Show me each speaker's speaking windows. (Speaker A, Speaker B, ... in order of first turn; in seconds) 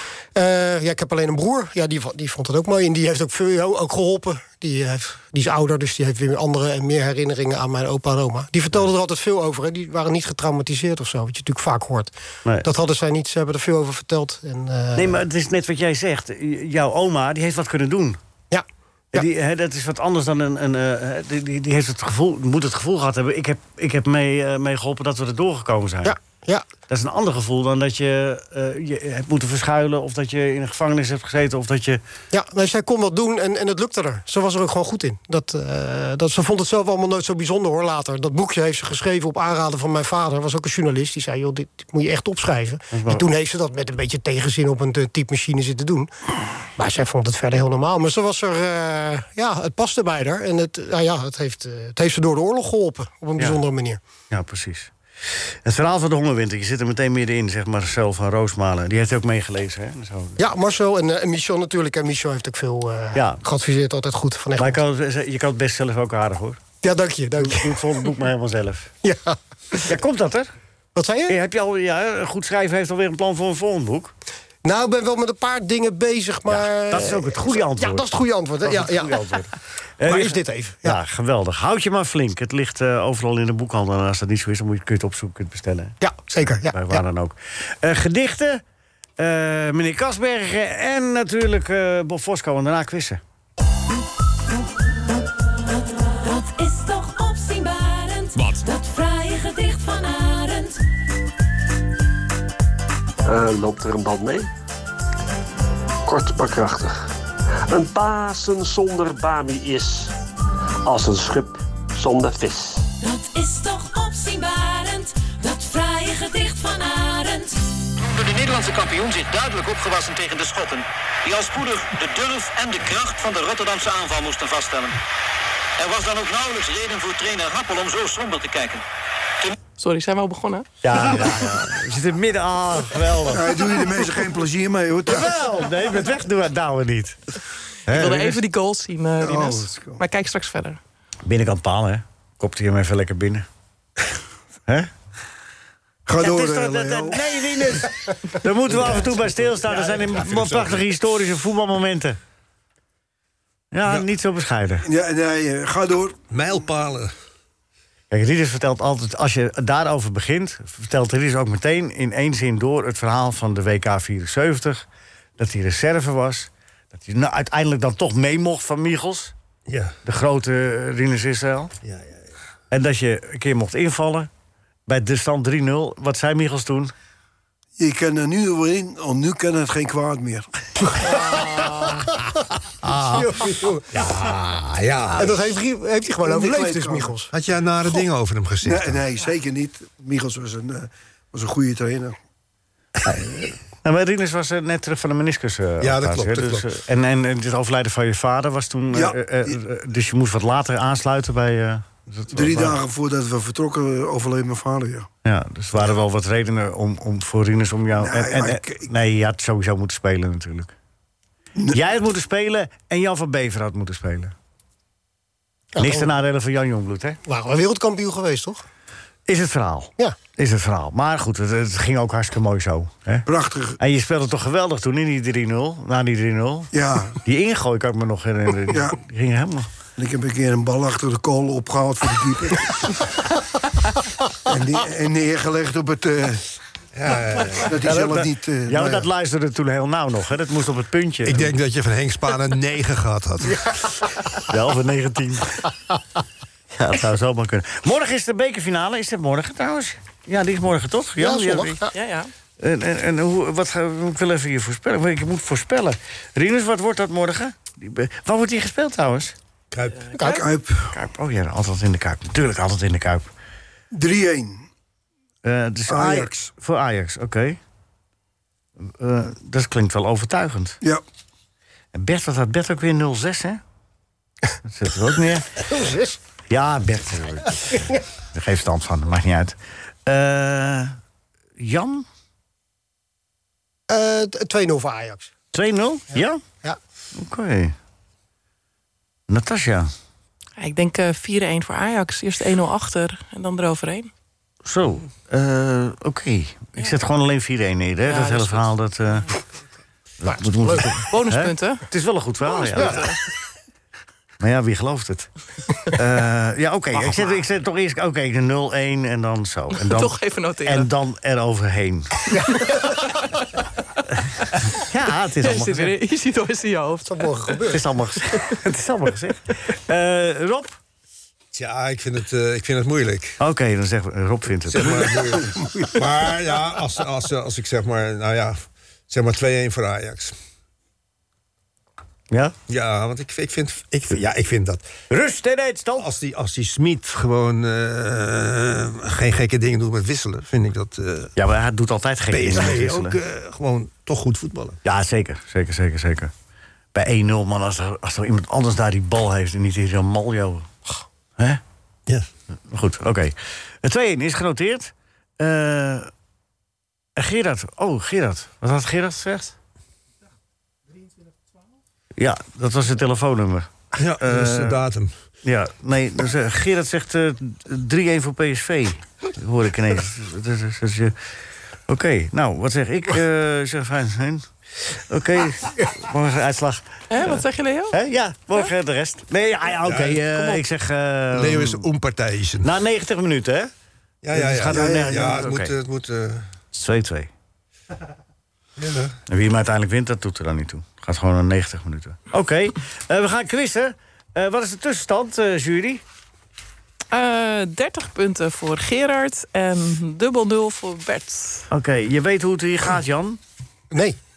Speaker A: 0.3-15.2, 18.5-19.3, 26.0-26.6, 32.3-46.1, 46.8-54.0, 60.4-64.8, 66.8-68.1, 69.0-69.9, 71.0-71.4, 74.6-79.4, 80.1-81.0, 86.0-87.0, 181.0-182.2, 183.1-183.9, 185.2-187.3, 215.8-216.1, 217.3-218.6, 243.6-243.8, 251.2-251.9, 275.7-276.2, 283.9-285.3, 286.2-286.8, 300.2-301.1, 312.3-313.0, 317.0-317.8, 403.9-404.2
Speaker B: 14.9-18.2, 19.1-26.2, 26.9-32.0, 42.9-43.2, 54.3-60.4, 63.1-63.4, 64.6-66.6, 67.4-68.9, 69.9-70.5, 71.3-74.1, 76.5-78.1, 78.6-88.6, 89.2-93.2, 130.8-133.6, 135.1-137.2, 137.9-138.4, 141.2-143.5, 146.2-152.2, 153.7-154.9, 158.1-164.8, 165.4-169.3, 170.1-171.7, 172.7-174.3, 174.9-176.9, 193.0-202.8, 205.2-210.7, 211.7-214.3, 215.8-217.2, 219.3-223.3, 223.8-226.7, 227.2-229.7, 237.8-241.5, 244.5-245.7, 246.8-251.8, 252.6-259.4, 260.9-263.3, 265.4-267.6, 268.8-270.8, 271.9-273.6, 274.6-275.6, 276.5-281.0, 281.6-282.1, 285.5-286.4, 287.2-287.8, 289.3-289.9, 294.6-299.3, 300.2-303.1, 304.4-305.3, 305.9-312.7, 314.8-315.9, 317.7-320.8, 323.4-325.1, 335.1-336.1, 341.4-343.2, 344.8-346.3, 346.9-350.8, 352.7-356.1, 357.2-359.6, 362.2-363.7, 364.2-364.8, 365.4-371.1, 371.9-381.9, 382.6-383.7, 384.3-385.7, 386.7-387.3, 389.3-396.0, 401.7-403.4
Speaker C: 96.1-100.8, 113.0-117.6
Speaker D: 103.2-104.5, 106.0-107.0, 107.7-110.2, 110.8-112.9
Speaker E: 118.0-125.0, 125.8-128.8
Speaker F: 129.8-130.7, 137.9-140.8, 251.9-252.3, 260.1-260.5, 290.6-294.1, 298.0-298.7, 301.1-301.8, 302.8-303.2, 309.8-310.9, 312.5-313.6, 315.4-317.7, 377.1-378.0, 397.1-401.7
Speaker G: 133.3-135.3, 139.2-140.0, 146.1-147.8, 148.8-149.1, 154.8-156.2, 177.8-181.0, 186.2-187.1, 188.6-192.2, 198.9-199.6, 202.3-205.1, 208.0-208.9, 223.3-223.8, 226.7-227.2, 228.7-229.0, 230.0-233.1, 234.4-236.5, 237.6-239.1, 260.2-260.9, 263.9-264.7, 265.9-266.4, 325.3-326.0, 384.6-385.5
Speaker H: 149.6-150.8, 156.3-157.1, 169.7-169.9, 171.8-172.1, 181.4-181.8, 182.8-185.4, 187.3-189.0, 195.8-196.7, 236.9-237.7, 241.2-243.7, 259.7-260.1, 321.5-323.4, 324.7-330.4, 332.7-334.9, 336.0-341.3, 342.3-344.8, 363.9-365.1, 379.9-380.6, 381.3-382.7, 384.2-386.5, 388.8-389.1